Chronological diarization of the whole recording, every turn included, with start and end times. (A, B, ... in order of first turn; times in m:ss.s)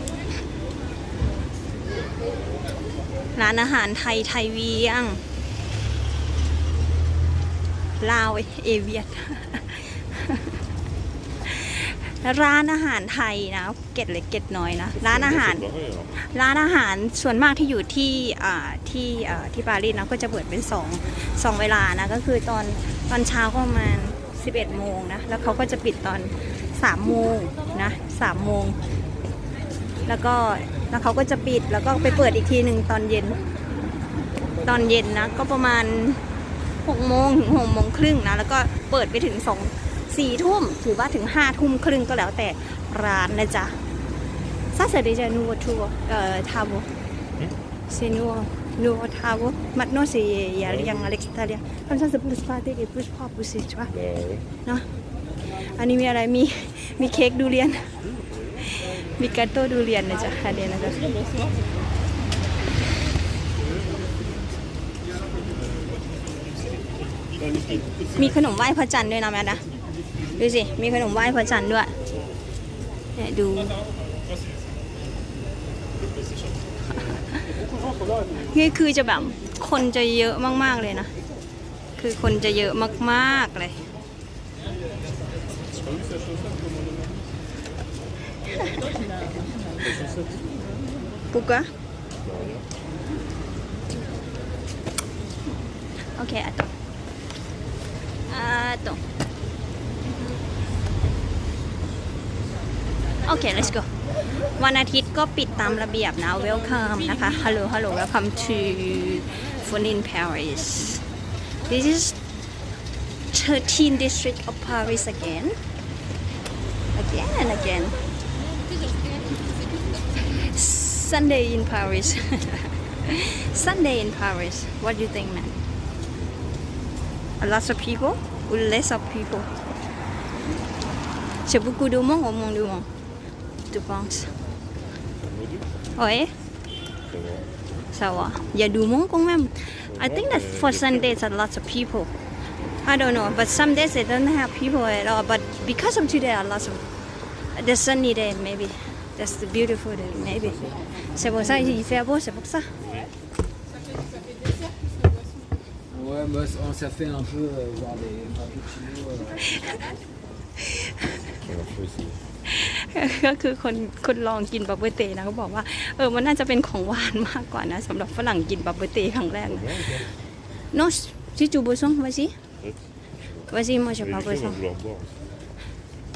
0:03.3-0:05.2 A
0:08.0-0:10.6 A
0:11.4-0:28.8 A
0:14.9-0:16.2 B
0:30.0-0:33.4 A
0:34.6-0:36.2 A
0:36.8-0:43.8 A
0:44.7-0:46.9 A
0:47.9-0:53.9 A
0:50.6-0:51.1 B
0:53.8-0:54.5 B
0:55.4-0:58.0 A
0:58.0-0:58.6 B
0:58.6-1:01.2 A
1:06.6-1:08.2 B
1:08.2-1:09.6 A
1:10.3-1:12.0 A
1:12.1-1:12.4 B
1:13.2-1:13.8 A
1:18.4-1:21.1 A
1:22.0-1:23.9 A
1:25.6-1:27.4 B
1:29.7-1:30.8 B
1:31.3-1:31.7 A
1:32.2-1:32.7 B
1:36.0-1:36.7 A
1:38.3-1:39.0 A
1:43.2-1:52.2 A
1:53.3-1:55.6 A
1:56.9-1:58.0 A
2:00.2-2:05.6 A
2:07.4-2:09.5 A
2:11.4-2:12.9 A
2:13.7-2:14.3 A
2:15.2-2:15.7 B
2:16.0-2:16.3 A
2:17.0-2:17.5 B
2:17.9-2:22.1 A
2:19.8-2:21.2 B
2:22.8-2:26.9 A
2:27.5-2:32.7 A
2:30.1-2:31.3 B
2:32.8-2:33.1 B
2:35.9-2:39.6 C
2:41.4-2:42.2 B
2:42.4-2:49.8 A
2:49.4-2:50.1 B
2:50.7-2:52.4 A
2:52.6-2:55.3 B
2:53.5-2:54.6 A